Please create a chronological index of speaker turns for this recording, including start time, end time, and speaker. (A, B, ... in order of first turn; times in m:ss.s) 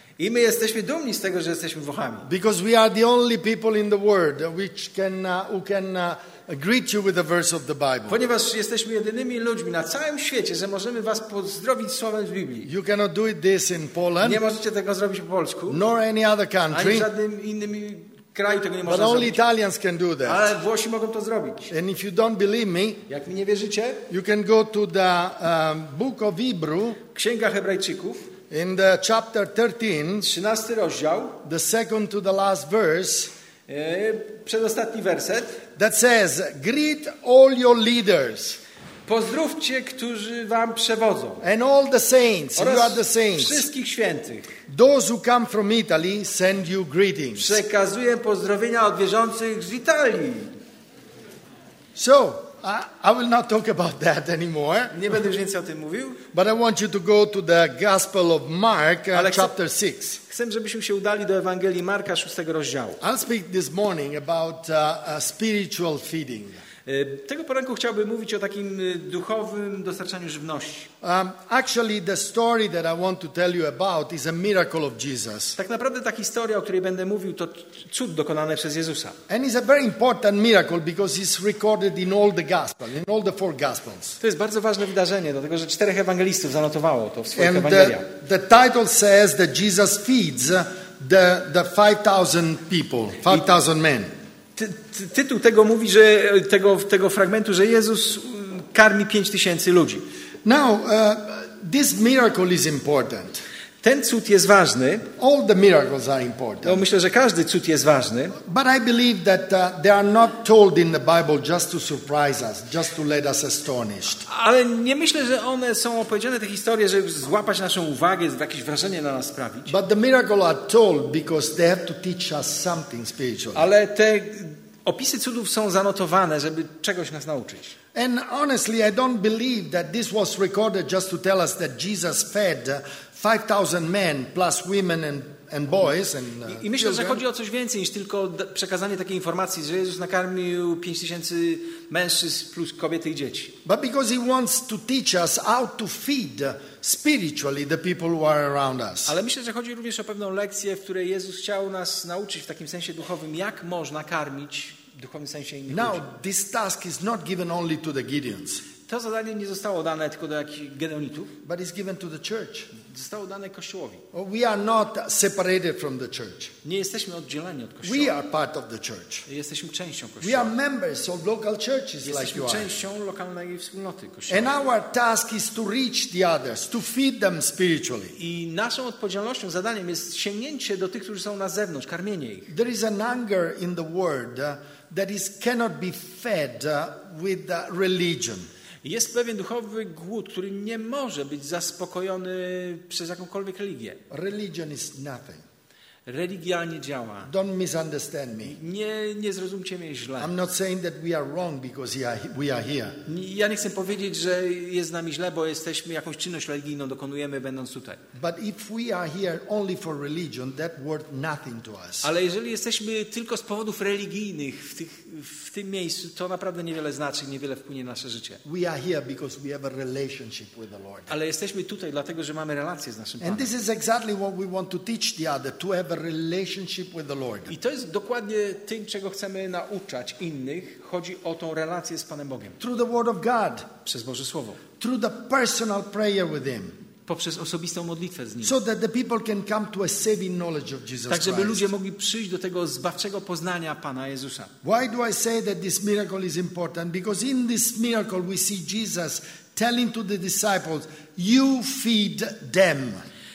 0:00.2-0:02.3 A
0:02.2-0:08.2 B
0:08.1-0:12.7 A
0:12.6-0:14.4 B
0:14.2-0:15.8 A
0:15.7-0:17.1 B
0:16.7-0:19.4 A
0:18.8-0:20.5 B
0:20.2-0:21.7 A
0:21.7-0:23.0 B
0:23.1-0:24.1 A
0:24.1-0:27.0 B
0:27.1-0:28.4 A
0:28.5-0:30.3 B
0:30.2-0:31.4 A
0:31.4-0:33.3 B
0:33.7-0:35.6 A
0:35.8-0:38.6 B
0:39.1-0:41.4 A
0:41.4-0:43.6 B
0:42.6-0:44.6 A
0:44.7-0:47.6 B
0:47.4-0:50.5 A
0:52.0-0:55.1 B
0:54.9-0:56.2 A
0:56.3-1:00.2 B
0:59.1-0:59.5 A
1:00.3-1:03.0 A
1:03.0-1:06.6 B
1:06.9-1:10.9 A
1:11.0-1:15.6 B
1:15.6-1:19.2 A
1:19.3-1:24.2 B
1:24.2-1:28.1 A
1:27.4-1:34.1 B
1:34.6-1:40.0 A
1:40.4-1:43.4 B
1:43.8-1:45.1 A
1:45.2-1:46.8 B
1:46.6-1:48.4 A
1:48.4-1:54.3 B
1:54.3-1:59.8 A
1:59.7-2:03.7 B
2:03.6-2:07.8 A
2:08.0-2:17.2 B
2:16.5-2:23.6 A
2:23.6-2:29.2 B
2:29.1-2:36.0 A
2:35.7-2:38.7 B
2:38.8-2:41.4 A
2:41.4-2:42.8 B
2:42.8-2:44.0 A
2:44.1-2:46.5 B
2:46.6-2:48.2 A
2:47.8-2:49.3 B
2:49.3-2:50.5 A
2:50.2-2:52.7 B
2:52.0-2:54.5 A
2:54.3-2:58.2 B
2:58.2-3:02.5 A
3:02.5-3:08.5 B
3:08.8-3:14.0 A
3:14.1-3:15.4 B
3:16.1-3:17.3 A
3:17.2-3:18.6 B
3:18.4-3:20.3 A
3:20.2-3:23.0 B
3:23.1-3:28.0 A
3:28.1-3:32.1 B
3:32.0-3:38.4 A
3:38.4-3:41.1 B
3:41.1-3:43.5 A
3:43.2-3:47.5 B
3:47.5-3:52.6 A
3:52.6-3:53.7 B
3:53.8-3:54.6 A
3:54.8-3:56.8 B
3:57.1-3:58.6 A
3:58.4-4:01.7 B
4:01.1-4:04.5 A
4:04.6-4:13.1 B